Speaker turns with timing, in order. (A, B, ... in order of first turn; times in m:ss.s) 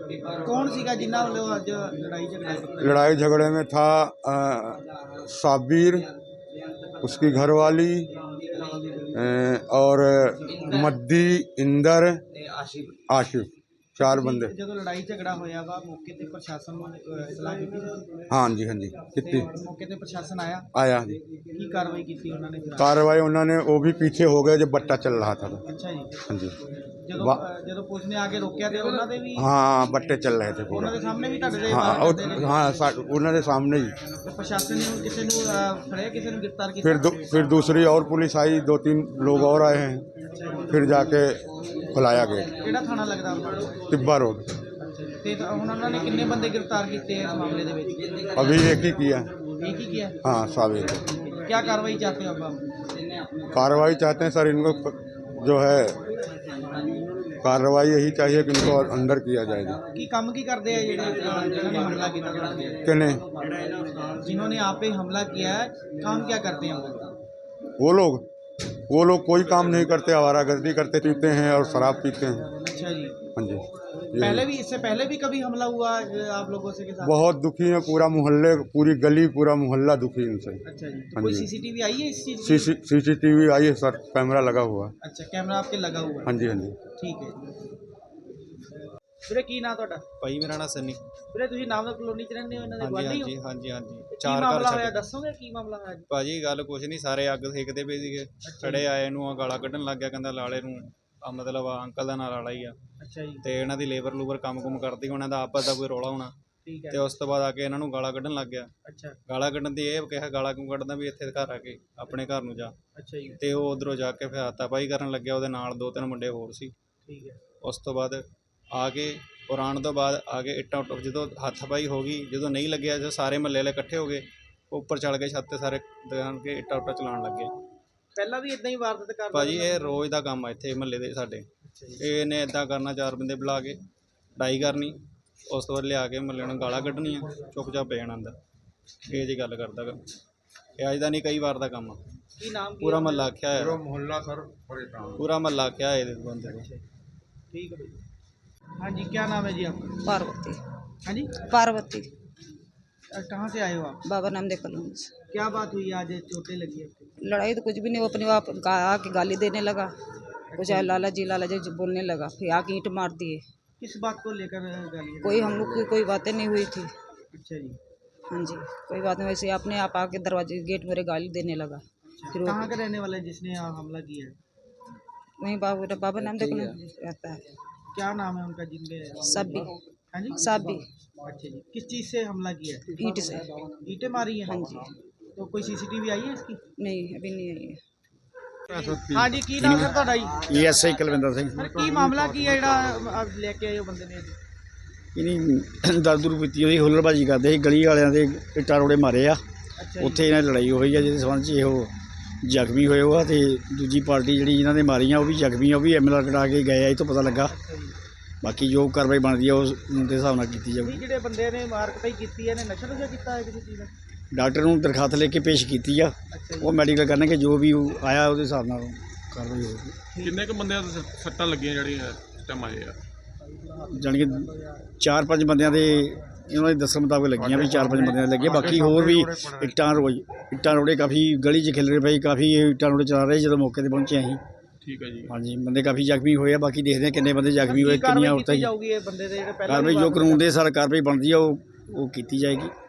0:00.4-0:03.0 A
0:02.8-0:06.1 B
0:07.0-0:08.1 B
0:09.1-0:12.2 B
0:13.1-0:14.5 B
0:14.0-0:18.0 A
0:18.3-0:19.5 B
0:19.2-0:20.7 A
0:20.7-0:21.2 B
0:21.5-0:22.9 A
0:22.8-0:25.6 B
0:25.7-0:26.2 A
0:26.3-0:26.6 B
0:27.0-0:29.5 A
0:29.4-0:31.0 B
0:30.7-0:32.6 A
0:31.7-0:34.0 B
0:34.2-0:37.1 A
0:36.8-0:40.1 B
0:40.3-0:40.7 A
0:40.7-0:42.5 B
0:42.6-0:43.9 A
0:43.9-0:44.5 B
0:44.8-0:48.3 A
0:48.3-0:49.3 B
0:49.6-0:50.2 A
0:50.2-0:51.0 B
0:51.3-0:52.6 A
0:53.5-0:56.0 B
0:57.4-0:59.8 B
1:00.0-1:02.8 A
1:02.8-1:03.2 B
1:04.2-1:07.1 A
1:07.8-1:08.3 B
1:08.9-1:12.5 B
1:12.6-1:13.2 A
1:13.4-1:14.5 B
1:14.2-1:17.2 A
1:17.0-1:20.6 B
1:20.7-1:22.7 A
1:21.2-1:21.5 B
1:22.4-1:24.9 B
1:25.0-1:26.3 A
1:26.2-1:26.8 B
1:26.9-1:27.4 A
1:29.3-1:30.0 A
1:30.2-1:31.0 C
1:31.3-1:33.3 A
1:32.8-1:35.0 C
1:34.1-1:36.1 A
1:36.1-1:42.8 C
1:38.4-1:38.9 A
1:43.0-1:43.4 A
1:43.4-1:46.3 C
1:46.6-1:47.1 A
1:46.9-1:48.7 C
1:48.8-1:49.2 A
1:49.3-1:52.7 C
1:53.0-1:53.4 A
1:53.4-1:56.7 C
1:57.0-1:57.4 A
1:57.6-1:58.2 C
1:58.7-2:07.5 C
2:08.2-2:10.0 A
2:09.3-2:11.5 C
2:11.6-2:12.0 A
2:12.0-2:13.8 C
2:14.4-2:18.4 C
2:19.0-2:20.0 C
2:20.8-2:22.0 C
2:22.4-2:23.3 A
2:22.8-2:23.8 C
2:23.5-2:25.3 B
2:25.2-2:26.7 C
2:26.5-2:26.8 A
2:27.5-2:28.0 A
2:28.8-2:29.9 A
2:30.0-2:30.6 D
2:31.1-2:31.4 A
2:31.4-2:32.1 D
2:33.1-2:34.0 A
2:34.0-2:35.1 D
2:35.3-2:37.2 A
2:37.2-2:39.9 D
2:40.5-2:41.0 A
2:40.6-2:43.4 D
2:43.8-2:45.9 A
2:45.2-2:46.9 D
2:47.3-2:47.8 A
2:48.3-2:51.8 D
2:52.2-2:54.4 A
2:52.3-2:52.8 D
2:55.4-2:57.4 D
2:57.9-3:00.4 A
2:59.2-2:59.7 D
3:00.3-3:00.8 D
3:01.2-3:02.9 A
3:03.0-3:03.6 D
3:03.8-3:06.6 A
3:04.4-3:04.9 D
3:06.8-3:07.8 D
3:08.7-3:09.4 B
3:08.7-3:10.5 A
3:10.4-3:11.7 E
3:11.6-3:14.4 A
3:11.6-3:13.0 F
3:15.2-3:19.4 E
3:19.8-3:20.3 A
3:20.0-3:27.5 E
3:27.5-3:28.0 A
3:28.4-3:31.0 E
3:30.8-3:33.9 A
3:34.3-3:40.0 E
3:36.3-3:36.8 A
3:40.1-3:40.4 A
3:40.2-3:43.0 F
3:43.8-3:44.5 E
3:45.0-3:54.4 E
3:47.4-3:49.8 F
3:54.8-3:55.3 F
3:55.3-3:58.7 E
3:57.6-4:00.5 A
3:59.7-4:02.7 E